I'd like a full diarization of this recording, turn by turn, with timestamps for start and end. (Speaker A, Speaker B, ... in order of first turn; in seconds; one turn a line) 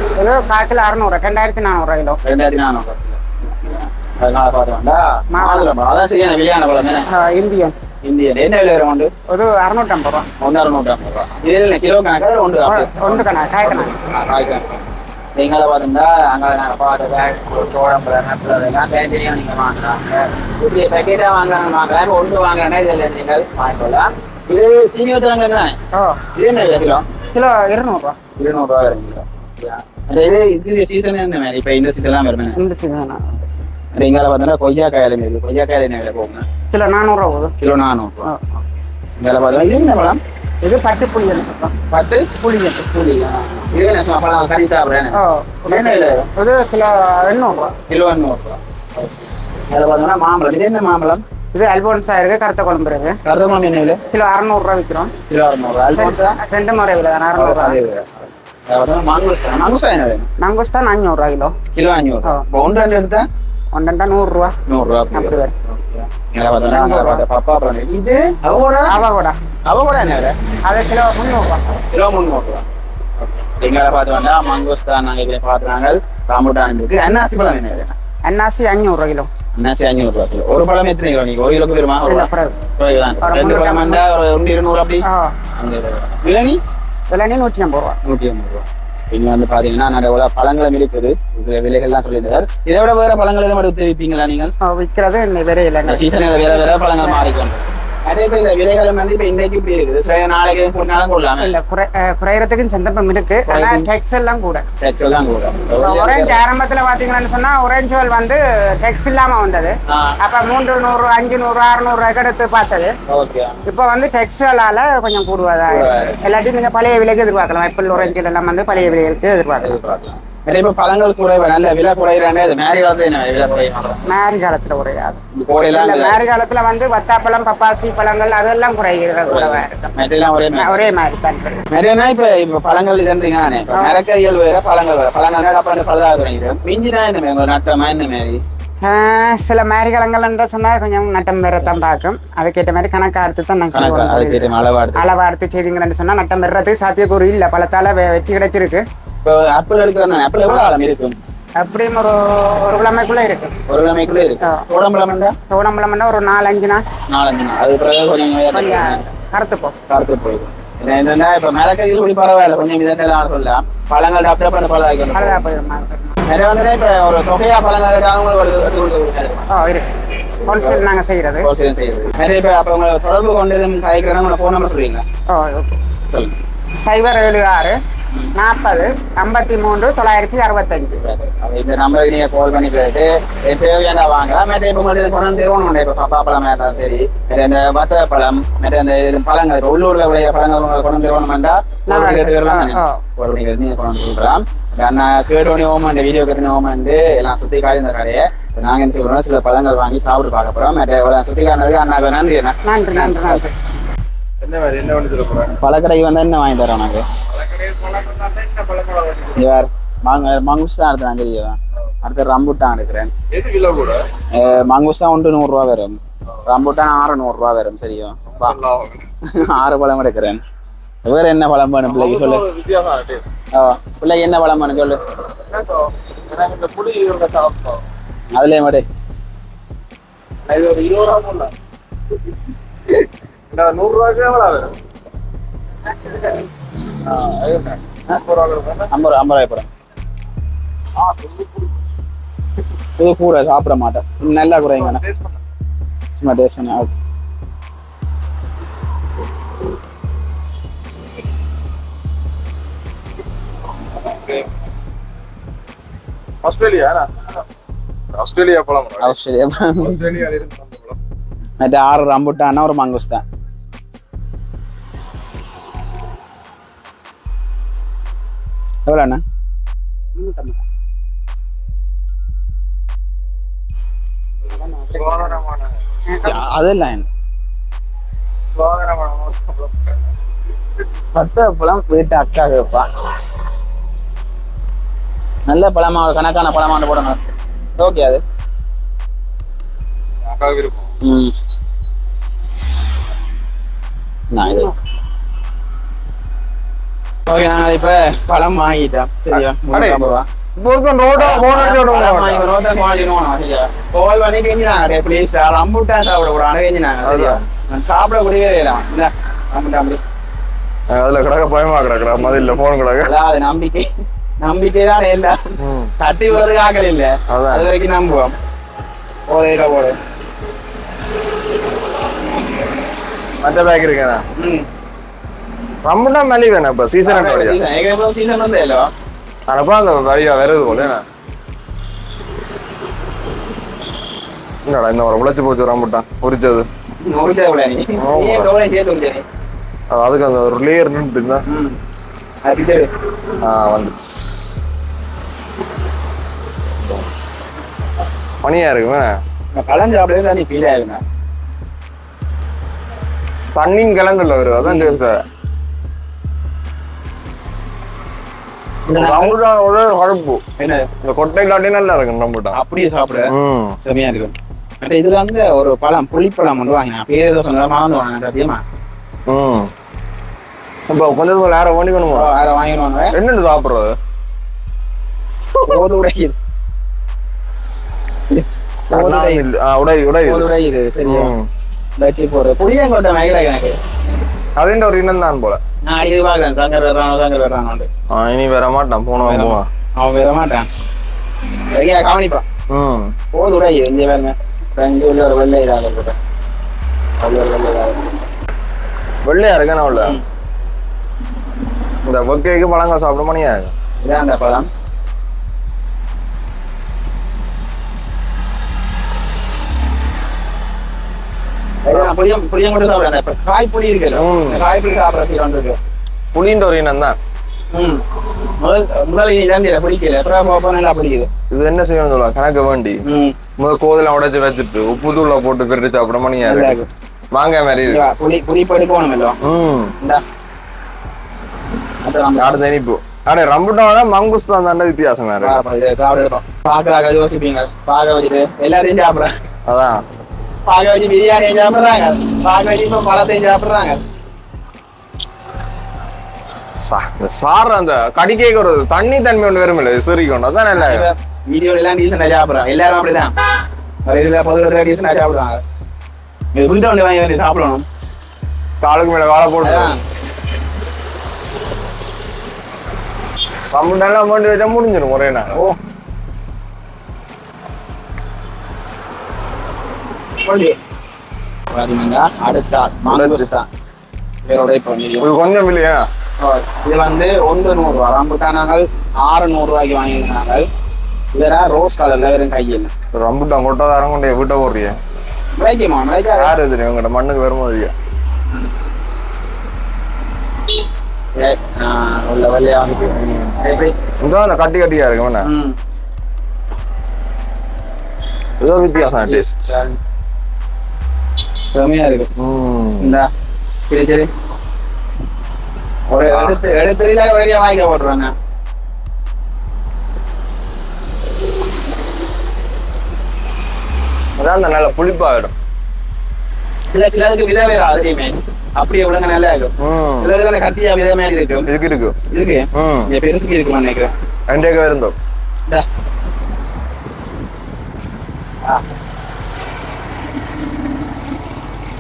Speaker A: 0.2-2.2
Speaker B: 2.2-7.1
Speaker A: 5.3-5.7
Speaker A: 7.1-7.8
Speaker B: 8.0-9.1
Speaker A: 9.3-10.3
Speaker B: 10.4-25.8
Speaker A: 12.7-13.9
Speaker A: 25.9-26.2
Speaker B: 26.3-27.1
Speaker A: 27.3-28.2
Speaker B: 28.4-32.6
Speaker A: 32.5-33.2
Speaker B: 34.0-36.5
Speaker A: 36.7-37.5
Speaker B: 37.6-38.3
Speaker B: 39.2-40.2
Speaker A: 40.6-41.8
Speaker B: 41.9-46.3
Speaker A: 42.4-42.8
Speaker A: 45.1-47.8
Speaker B: 47.9-51.2
Speaker A: 51.5-53.2
Speaker B: 53.2-54.0
Speaker A: 54.1-55.1
Speaker B: 55.3-56.4
Speaker A: 55.9-57.8
Speaker B: 57.4-60.3
Speaker A: 60.4-61.5
Speaker B: 61.7-63.3
Speaker A: 63.7-64.6
Speaker B: 64.7-69.0
Speaker A: 65.1-65.5
Speaker A: 66.7-67.3
Speaker A: 68.9-69.4
Speaker B: 69.7-70.3
Speaker A: 70.6-71.8
Speaker B: 71.9-72.7
Speaker B: 73.2-77.9
Speaker A: 78.3-79.3
Speaker B: 79.5-86.6
Speaker A: 82.0-82.6
Speaker A: 83.2-84.0
Speaker A: 85.0-85.3
Speaker A: 87.1-88.0
Speaker B: 88.0-94.5
Speaker A: 94.6-97.3
Speaker B: 95.8-101.6
Speaker A: 101.4-104.6
Speaker B: 103.5-103.9
Speaker B: 104.8-106.4
Speaker A: 105.8-112.9
Speaker B: 109.9-110.2
Speaker B: 113.1-113.6
Speaker A: 113.7-119.8
Speaker B: 115.7-116.2
Speaker B: 119.6-124.0
Speaker A: 124.1-129.8
Speaker B: 125.3-126.2
Speaker B: 129.3-130.9
Speaker A: 130.5-131.6
Speaker B: 131.7-138.4
Speaker A: 133.7-134.0
Speaker A: 138.8-148.8
Speaker B: 143.7-145.0
Speaker B: 149.2-151.2
Speaker A: 151.6-153.5
Speaker B: 153.7-155.3
Speaker A: 155.5-156.8
Speaker B: 157.1-159.1
Speaker A: 158.5-159.8
Speaker B: 159.9-165.4
Speaker A: 165.1-166.2
Speaker B: 166.3-169.5
Speaker A: 169.5-169.9
Speaker A: 170.4-171.5
Speaker B: 170.5-170.8
Speaker B: 171.4-175.0
Speaker A: 175.3-175.8
Speaker B: 176.1-176.4
Speaker A: 176.8-177.8
Speaker A: 178.3-181.0
Speaker B: 181.0-203.4
Speaker A: 191.9-193.0
Speaker A: 202.6-203.5
Speaker C: 204.4-205.5
Speaker B: 205.5-207.1
Speaker C: 207.3-209.5
Speaker B: 209.4-213.1
Speaker C: 213.3-214.0
Speaker B: 214.3-218.6
Speaker C: 218.3-219.1
Speaker B: 219.3-220.4
Speaker B: 221.1-222.4
Speaker C: 221.9-223.3
Speaker B: 223.5-225.0
Speaker C: 225.5-227.8
Speaker B: 228.3-228.9
Speaker C: 230.5-231.5
Speaker C: 232.9-234.7
Speaker C: 236.0-236.3
Speaker C: 237.0-238.9
Speaker B: 238.9-239.7
Speaker C: 241.0-241.8
Speaker B: 243.0-245.0
Speaker C: 244.8-245.4
Speaker B: 246.2-246.9
Speaker C: 254.1-254.5
Speaker C: 256.4-257.1
Speaker C: 258.1-259.1
Speaker B: 259.0-260.0
Speaker C: 259.8-261.0
Speaker B: 261.6-263.2
Speaker B: 268.9-269.2
Speaker A: 270.2-270.6
Speaker A: 274.5-275.4
Speaker C: 274.9-275.8
Speaker A: 276.1-276.5
Speaker B: 276.2-277.1
Speaker C: 278.5-280.0
Speaker B: 281.1-282.9
Speaker B: 285.5-287.2
Speaker B: 287.8-288.2
Speaker C: 290.2-290.9
Speaker B: 291.0-291.3
Speaker B: 294.3-294.7
Speaker B: 297.3-300.3
Speaker C: 299.3-300.0
Speaker C: 300.6-302.4
Speaker B: 301.1-310.0
Speaker C: 307.0-307.4
Speaker C: 310.9-313.1
Speaker B: 312.2-313.9
Speaker B: 314.4-315.4
Speaker C: 315.6-315.9
Speaker B: 316.0-318.4
Speaker C: 317.3-317.7
Speaker B: 319.3-320.0
Speaker C: 323.4-324.2
Speaker B: 324.4-324.7
Speaker C: 325.8-327.6
Speaker B: 327.0-328.9
Speaker C: 329.5-331.0
Speaker B: 330.6-330.9
Speaker C: 334.6-336.7
Speaker B: 337.0-339.2
Speaker C: 338.0-338.5
Speaker C: 339.9-341.4
Speaker B: 341.5-341.8
Speaker B: 342.4-342.9
Speaker C: 343.4-344.6
Speaker C: 348.4-349.1
Speaker B: 349.5-351.0
Speaker C: 353.6-355.2
Speaker B: 354.6-355.0
Speaker B: 358.9-359.4
Speaker C: 358.9-360.4
Speaker B: 360.6-360.9
Speaker C: 361.0-362.6
Speaker B: 362.5-368.6
Speaker C: 363.3-363.8
Speaker C: 369.3-369.7
Speaker C: 370.9-372.3
Speaker B: 372.1-373.1
Speaker C: 373.1-373.9
Speaker B: 375.6-376.4
Speaker B: 378.3-379.5
Speaker C: 378.9-380.5
Speaker B: 380.2-381.3
Speaker C: 381.0-381.5
Speaker B: 382.0-383.8
Speaker C: 384.6-385.6
Speaker B: 385.8-387.9
Speaker C: 388.1-389.7
Speaker B: 389.2-390.7
Speaker B: 391.7-392.4
Speaker C: 392.7-393.1
Speaker B: 393.3-396.2
Speaker B: 397.2-398.3
Speaker C: 399.2-400.2
Speaker B: 399.9-400.2
Speaker C: 402.1-403.7
Speaker B: 404.0-404.7
Speaker B: 411.9-415.8
Speaker C: 414.1-414.6
Speaker C: 416.3-417.2
Speaker B: 417.7-421.3
Speaker C: 421.5-423.0
Speaker B: 423.1-423.4
Speaker C: 423.6-426.8
Speaker B: 426.4-426.9
Speaker C: 427.3-428.0
Speaker B: 427.9-429.4
Speaker C: 429.4-429.9
Speaker B: 432.0-432.6
Speaker C: 432.4-435.6
Speaker B: 435.4-439.3
Speaker C: 439.7-440.0
Speaker B: 440.7-444.0
Speaker C: 446.8-451.1
Speaker B: 450.7-453.3
Speaker B: 454.1-455.6
Speaker B: 456.5-457.9
Speaker C: 458.8-459.9
Speaker B: 459.6-460.0
Speaker C: 463.7-465.6
Speaker B: 465.5-465.8
Speaker B: 470.4-470.8
Speaker B: 471.7-473.7
Speaker C: 473.1-473.5
Speaker B: 474.5-475.3
Speaker C: 475.2-476.0
Speaker B: 476.4-480.7
Speaker B: 481.3-482.9
Speaker C: 483.2-485.0
Speaker B: 485.6-486.5
Speaker C: 486.3-487.9
Speaker B: 491.4-493.9
Speaker C: 493.2-493.6
Speaker C: 494.2-495.5
Speaker B: 495.4-495.8
Speaker C: 498.6-499.6
Speaker B: 499.2-499.9
Speaker B: 501.7-502.3
Speaker C: 502.4-503.2
Speaker B: 503.0-503.3
Speaker B: 503.9-504.3
Speaker B: 506.1-508.3
Speaker C: 506.3-506.6
Speaker C: 514.4-515.5
Speaker B: 516.9-521.7
Speaker C: 519.8-520.3
Speaker C: 521.7-522.2
Speaker B: 522.3-524.1
Speaker C: 522.7-523.1
Speaker C: 524.5-525.2